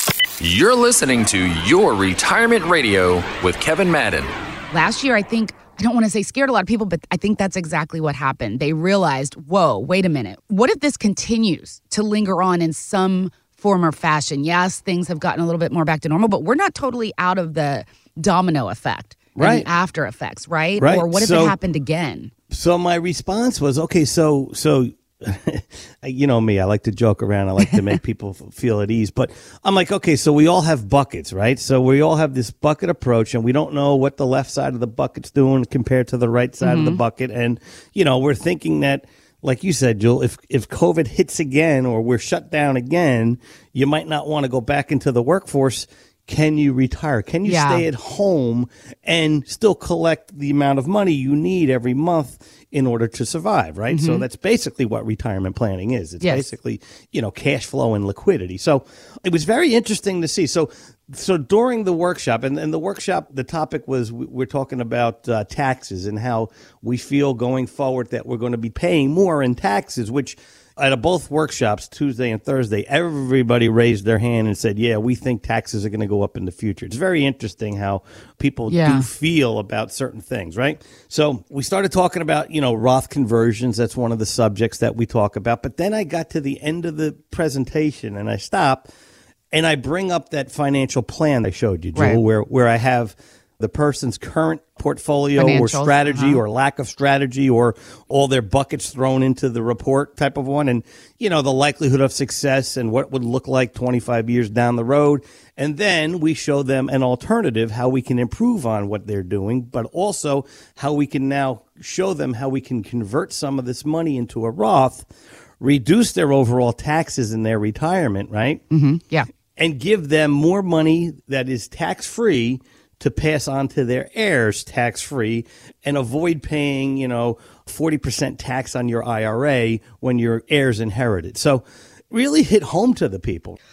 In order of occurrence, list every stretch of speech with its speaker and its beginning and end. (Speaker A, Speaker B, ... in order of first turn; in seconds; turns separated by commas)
Speaker A: 0.4-4.3, Speaker B: 4.7-22.3, Speaker C: 19.4-19.7, Speaker C: 20.8-21.6, Speaker C: 22.5-88.9, Speaker B: 36.6-37.0, Speaker B: 47.4-47.8, Speaker B: 53.9-54.2, Speaker B: 56.2-56.5, Speaker B: 78.7-79.1, Speaker C: 89.5-115.1, Speaker B: 91.9-92.2, Speaker B: 95.3-96.4, Speaker C: 115.6-118.6, Speaker B: 118.7-119.3, Speaker C: 119.5-133.6